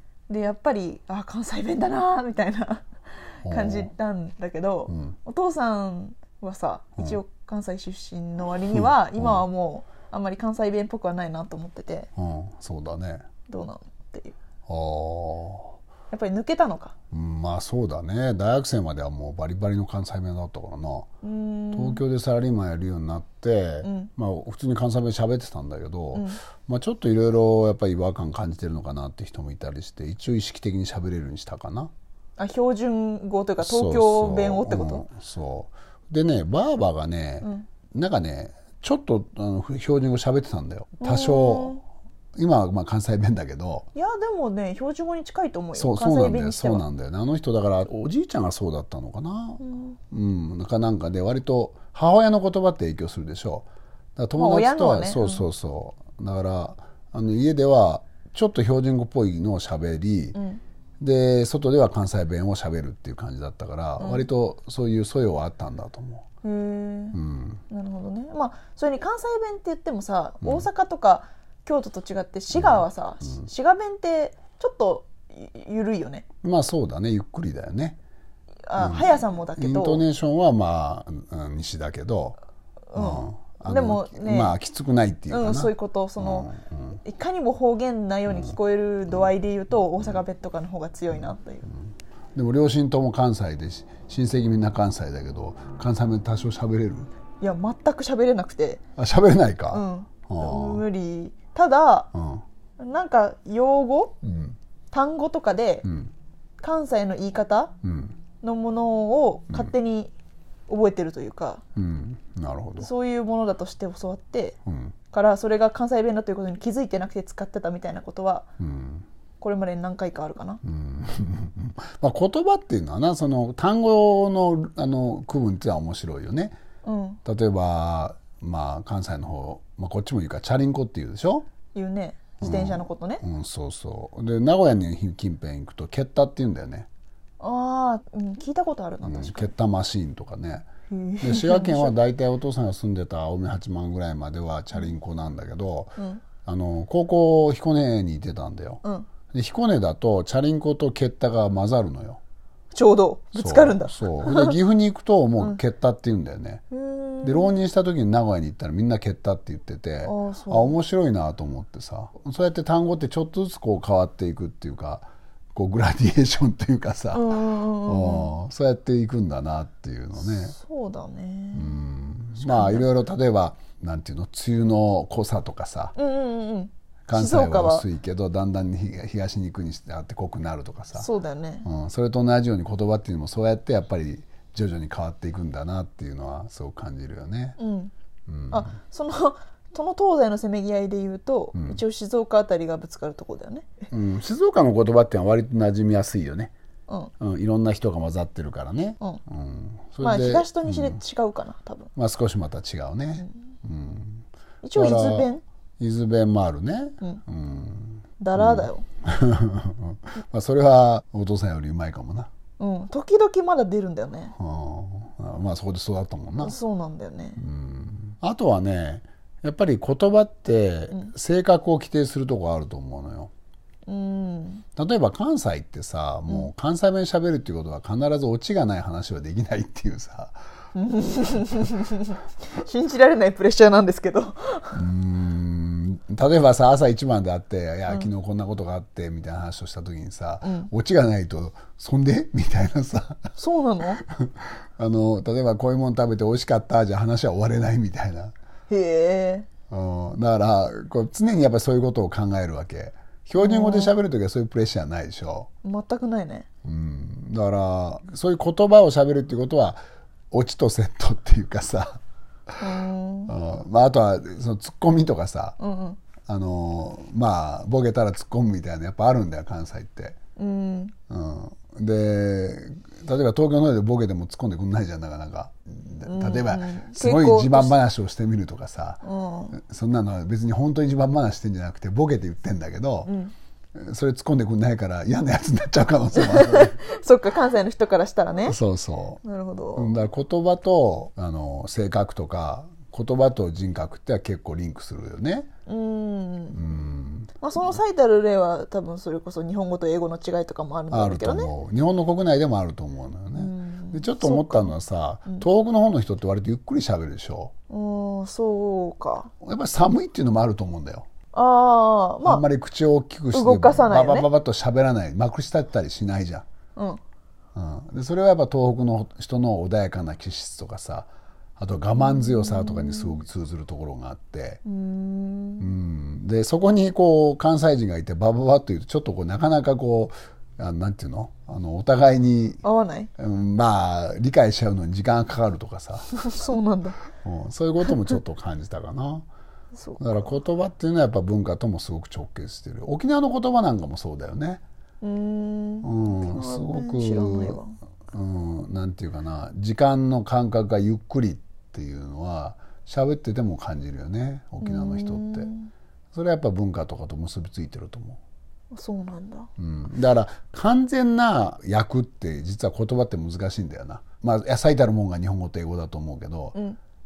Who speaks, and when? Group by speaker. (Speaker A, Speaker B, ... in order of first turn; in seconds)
Speaker A: 0.3-12.1, 13.5-14.4, 16.1-16.9, 21.2-22.0, 23.8-24.1, 26.1-26.4, 32.4-35.0, 41.0-41.8, 44.0-46.8, 49.6-50.0, 54.4-55.5, 60.3-60.6, 64.0-64.3, 66.4-67.2, 67.7-76.2, 78.7-80.0, 82.9-84.5, 85.3-86.5, 87.0-91.7, 97.4-98.8, 99.7-102.1, 102.8-104.2, 104.9-105.9, 106.6-107.7, 108.4-110.1, 110.7-111.6, 112.8-114.6, 115.1-118.5, 119.4-120.6, 126.8-127.2, 131.8-133.2, 137.4-139.5, 140.9-142.0, 146.0-146.2, 152.7-154.6, 156.7-157.5, 160.0-160.8, 167.1-168.3, 170.2-171.8, 172.4-172.9, 175.9-177.9, 180.9-181.7, 187.6-187.9, 188.5-193.7, 200.0-201.9, 204.6-205.4, 208.2-208.8, 212.6-214.3, 216.4-217.4, 223.9-224.6, 230.8-234.8, 240.4-240.7, 243.4-244.0, 248.7-249.5, 253.4-253.9, 255.6-256.5, 262.6-263.3, 265.6-266.0, 270.4-270.9, 276.0-277.8, 279.0-279.6, 283.1-283.3, 286.1-288.6, 289.2-290.0, 295.7-296.6, 297.4-301.5, 303.4-304.7, 307.7-309.3, 311.3-312.4, 313.3-314.3, 322.0-323.2, 324.7-325.7, 332.6-333.1, 336.2-337.0, 339.8-340.0, 345.0-347.8, 354.6-355.7, 358.7-359.5
Speaker B: 3.4-3.9, 4.9-5.2, 8.7-9.4, 12.2-13.2, 14.7-15.8, 17.1-21.1, 21.7-31.9, 33.6-41.8, 42.3-43.9, 45.7-60.4, 61.0-66.2, 67.1-67.6, 70.4-70.7, 72.5-72.8, 76.4-78.0, 78.8-82.4, 82.9-87.0, 88.3-88.6, 92.3-97.1, 99.0-100.8, 102.1-102.4, 104.2-104.5, 105.8-106.1, 107.8-108.2, 111.8-112.9, 114.7-114.9, 118.6-119.0, 120.6-126.6, 127.2-131.5, 132.4-136.9, 139.0-140.7, 141.2-148.8, 149.3-152.2, 153.3-156.7, 157.2-170.6, 171.5-175.9, 177.1-181.1, 181.6-187.6, 188.3-188.7, 191.5-191.8, 193.9-196.5, 197.2-201.0, 202.0-212.3, 214.3-216.6, 217.4-223.3, 224.8-230.4, 234.7-243.3, 244.0-248.3, 249.7-255.5, 256.6-262.0, 263.3-265.6, 266.2-270.2, 271.1-283.1, 283.8-286.8, 288.4-289.2, 289.8-295.5, 296.5-297.4, 300.9-307.5, 309.4-311.1, 312.2-316.4, 317.6-324.6, 325.6-332.6, 333.2-336.3, 337.1-339.2, 340.0-344.6, 345.8-355.5, 356.1-358.2, 359.6-366.6